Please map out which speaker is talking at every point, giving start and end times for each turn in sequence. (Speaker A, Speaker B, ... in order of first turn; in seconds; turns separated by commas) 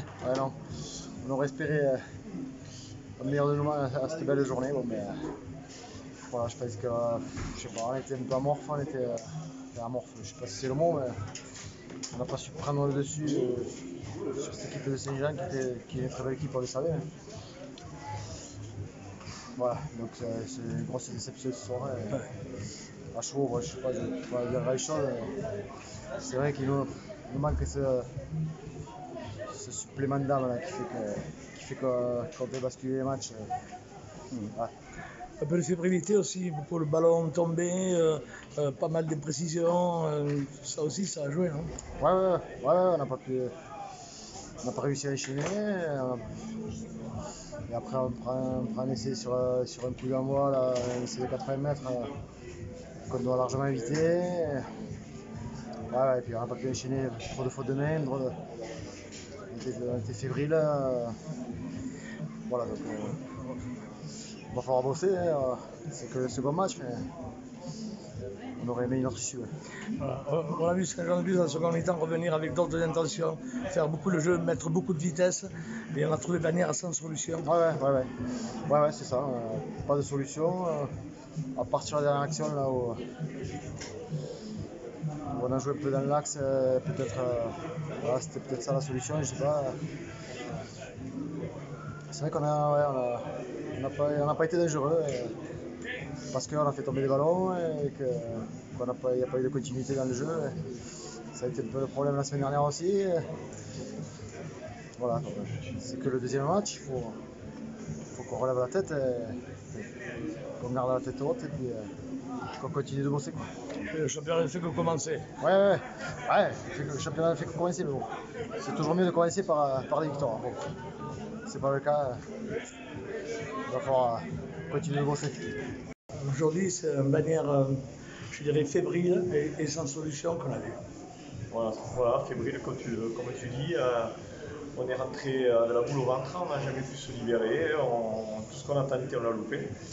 Speaker A: 0.2-0.6, Speaker A: 1.2-2.0, Speaker A: 3.2-5.2, Speaker A: 6.3-11.2, Speaker A: 12.1-13.7, Speaker A: 14.3-17.1, Speaker A: 19.6-22.3, Speaker A: 23.1-25.3, Speaker A: 26.2-28.1, Speaker A: 29.5-33.5, Speaker B: 35.4-41.7, Speaker A: 42.0-43.5, Speaker A: 44.6-46.2, Speaker A: 47.7-52.1, Speaker A: 53.1-54.7, Speaker A: 55.9-58.3, Speaker A: 59.5-61.1, Speaker A: 62.5-63.5, Speaker A: 64.5-67.1, Speaker A: 68.6-69.5, Speaker B: 70.0-77.5, Speaker A: 77.4-78.1, Speaker A: 78.7-80.9, Speaker A: 81.6-83.0, Speaker A: 85.3-89.8, Speaker A: 92.1-95.3, Speaker A: 96.3-100.6, Speaker A: 101.3-103.3, Speaker A: 105.0-107.2, Speaker A: 108.1-109.9, Speaker A: 110.6-111.9, Speaker A: 112.6-113.5, Speaker B: 113.9-115.3, Speaker A: 115.4-120.6, Speaker A: 121.5-122.2, Speaker A: 123.7-125.6, Speaker B: 126.2-130.8, Speaker C: 131.5-134.1, Speaker C: 134.8-139.7